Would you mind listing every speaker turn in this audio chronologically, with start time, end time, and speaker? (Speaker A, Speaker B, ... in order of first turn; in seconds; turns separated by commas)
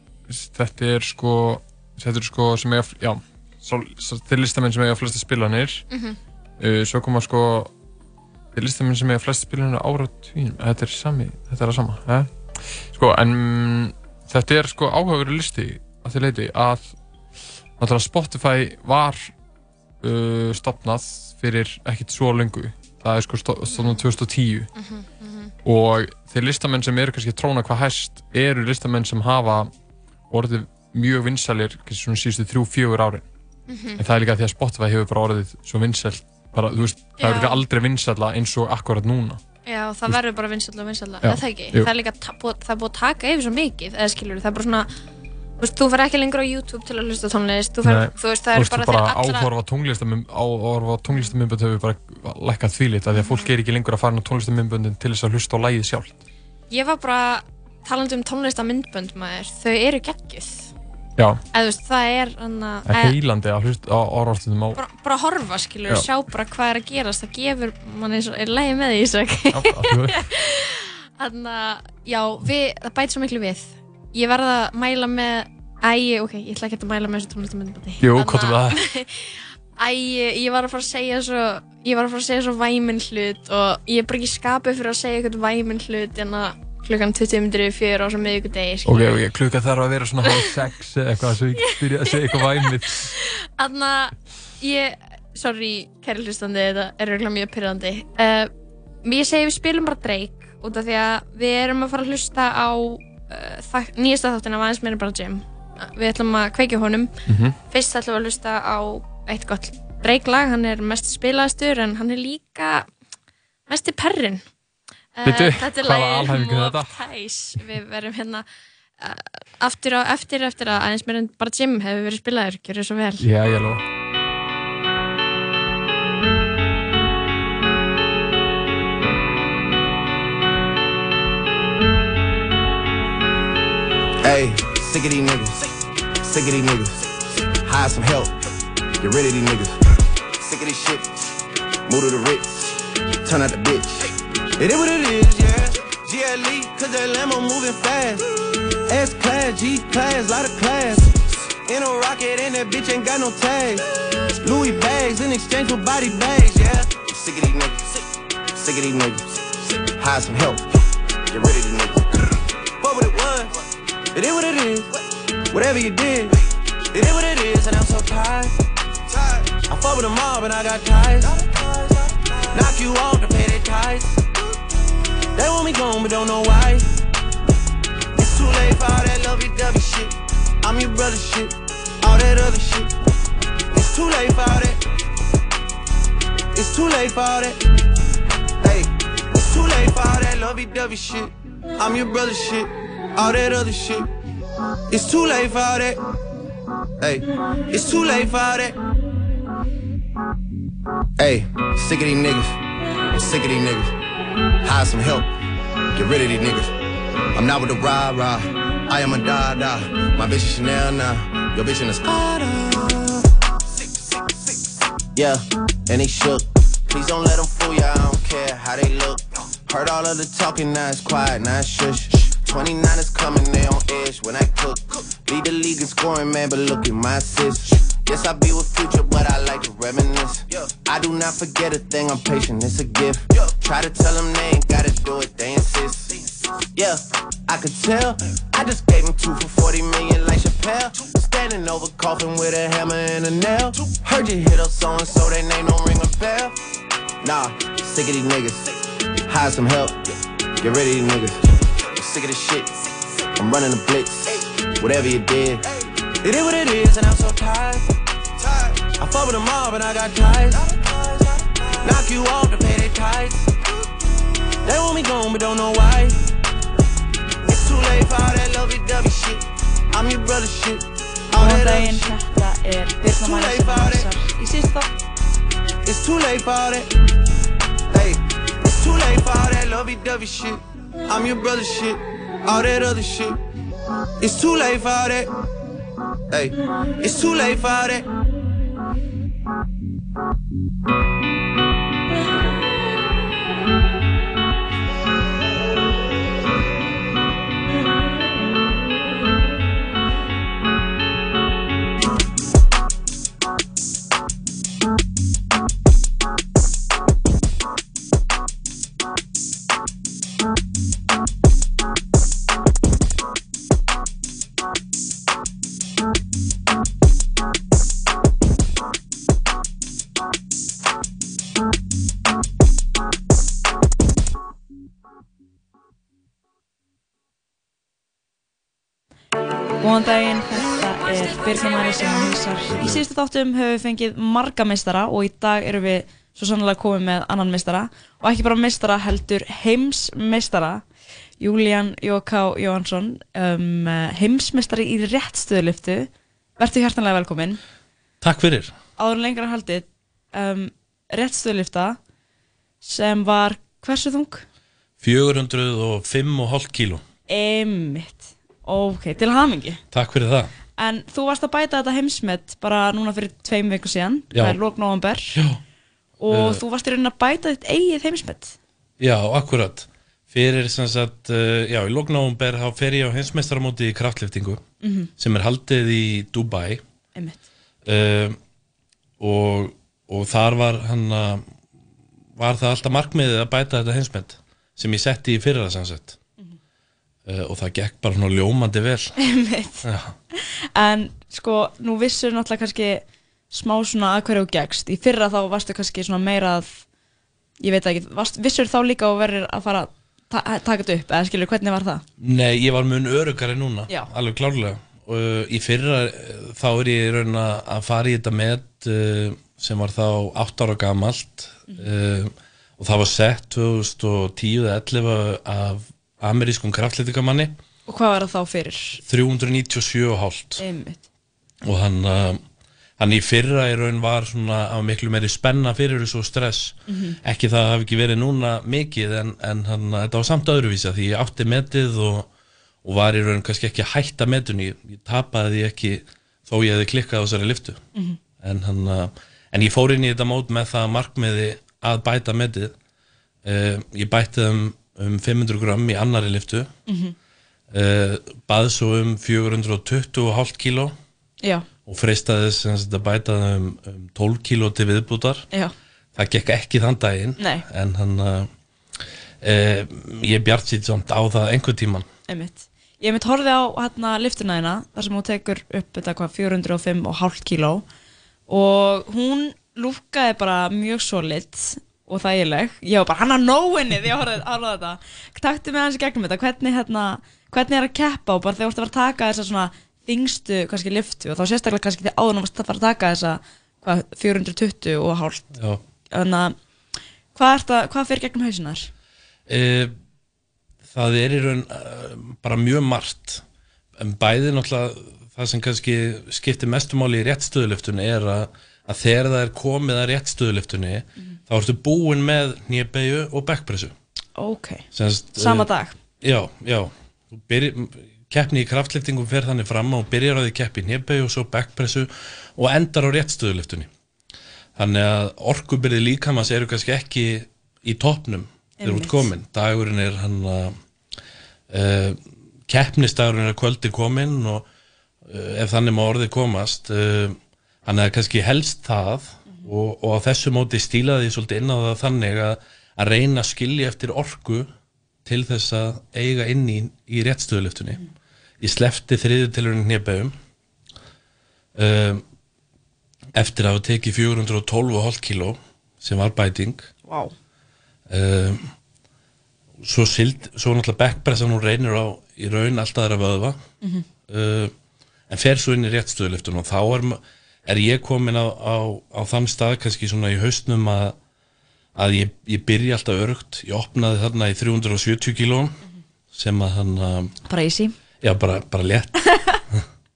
Speaker A: 0.3-5.9, Speaker B: 5.9-6.2, Speaker A: 6.6-7.7, Speaker A: 8.5-16.9, Speaker A: 17.8-19.3, Speaker A: 20.0-24.7, Speaker B: 23.7-24.0, Speaker B: 24.8-25.5, Speaker A: 25.6-29.7, Speaker A: 30.3-33.2, Speaker B: 33.7-34.0, Speaker A: 34.0-39.4, Speaker B: 37.2-37.6, Speaker B: 39.7-44.9, Speaker A: 41.2-41.9, Speaker B: 45.6-49.5, Speaker A: 47.8-56.2, Speaker B: 53.1-53.5, Speaker B: 56.7-60.7, Speaker A: 61.2-61.4, Speaker B: 61.5-63.2, Speaker A: 62.9-64.8, Speaker B: 64.8-89.2, Speaker A: 69.5-70.2, Speaker A: 78.0-78.8, Speaker A: 88.8-93.1, Speaker B: 91.6-98.5, Speaker B: 99.0-107.1, Speaker A: 107.3-107.6, Speaker B: 107.7-112.8, Speaker B: 113.7-114.4, Speaker B: 115.2-118.5, Speaker A: 115.2-117.0, Speaker B: 119.0-123.3, Speaker A: 123.2-123.8, Speaker C: 134.2-135.6, Speaker C: 136.2-137.0, Speaker C: 137.7-138.3, Speaker C: 139.0-139.7, Speaker C: 140.4-141.1, Speaker C: 141.9-142.7, Speaker C: 143.2-148.2, Speaker C: 148.9-153.8, Speaker C: 154.4-158.0, Speaker C: 158.5-160.6, Speaker C: 161.3-162.1, Speaker C: 162.8-163.5, Speaker C: 164.1-164.9, Speaker C: 165.5-166.3, Speaker C: 166.9-168.5, Speaker C: 169.1-171.5, Speaker C: 172.5-174.2, Speaker C: 175.3-176.9, Speaker C: 178.2-182.9, Speaker C: 183.7-184.8, Speaker C: 186.5-187.6, Speaker C: 188.6-194.1, Speaker C: 194.9-196.0, Speaker C: 197.0-198.8, Speaker C: 201.2-202.5, Speaker C: 203.1-203.9, Speaker C: 204.6-205.3, Speaker C: 205.9-206.7, Speaker C: 207.3-212.4, Speaker C: 215.2-236.1, Speaker C: 236.8-246.5, Speaker C: 247.2-248.7, Speaker C: 249.2-251.4, Speaker C: 252.0-252.8, Speaker C: 253.3-255.6, Speaker C: 256.2-257.9, Speaker C: 258.9-260.8, Speaker C: 261.8-263.5, Speaker C: 264.6-266.2, Speaker C: 267.5-272.1, Speaker D: 271.4-274.9, Speaker C: 273.1-274.1, Speaker C: 275.8-276.9, Speaker C: 277.9-283.4, Speaker C: 284.2-285.3, Speaker C: 286.3-288.1, Speaker D: 329.8-340.9, Speaker D: 341.4-347.6, Speaker E: 348.2-348.7, Speaker D: 349.0-352.0, Speaker D: 352.8-354.4, Speaker E: 355.0-357.0, Speaker D: 357.3-359.8, Speaker E: 359.9-360.5, Speaker D: 360.8-365.4, Speaker E: 364.3-364.6, Speaker E: 365.3-365.6, Speaker D: 366.2-368.6, Speaker E: 366.3-366.6, Speaker E: 369.0-374.6, Speaker D: 374.8-375.1, Speaker E: 375.2-376.8, Speaker D: 377.2-377.4, Speaker E: 377.8-378.4, Speaker E: 379.2-381.4, Speaker E: 382.4-386.2, Speaker E: 387.2-389.2, Speaker D: 389.2-396.8, Speaker E: 389.8-390.1, Speaker D: 397.6-402.0, Speaker E: 402.2-417.5, Speaker D: 417.9-419.0, Speaker E: 419.1-420.6, Speaker D: 420.6-421.0, Speaker E: 421.6-422.4, Speaker E: 423.0-432.3, Speaker D: 426.9-427.2, Speaker E: 432.8-437.8, Speaker E: 438.4-442.7, Speaker E: 443.4-446.7, Speaker D: 446.9-447.1, Speaker E: 447.7-450.9, Speaker E: 451.9-455.5, Speaker E: 456.1-458.5, Speaker D: 457.4-457.6, Speaker E: 459.4-462.0, Speaker D: 462.3-467.8, Speaker D: 468.5-485.5, Speaker D: 486.1-486.5, Speaker D: 487.3-488.9, Speaker E: 489.5-489.9, Speaker E: 490.9-493.4, Speaker E: 494.0-503.9, Speaker D: 504.4-506.0, Speaker E: 504.9-505.7, Speaker E: 506.2-513.9, Speaker E: 514.8-520.8, Speaker D: 518.8-519.3, Speaker E: 521.7-524.7, Speaker E: 525.3-534.7, Speaker E: 535.2-538.0, Speaker E: 538.6-540.4, Speaker E: 541.8-542.2, Speaker E: 543.3-546.9, Speaker D: 547.0-547.3, Speaker E: 548.1-548.6, Speaker E: 549.8-553.6, Speaker D: 553.8-554.1, Speaker E: 554.3-554.7, Speaker E: 555.3-561.2, Speaker E: 562.0-565.8, Speaker E: 566.3-567.3, Speaker D: 567.5-568.0, Speaker E: 568.2-569.2, Speaker D: 569.3-569.6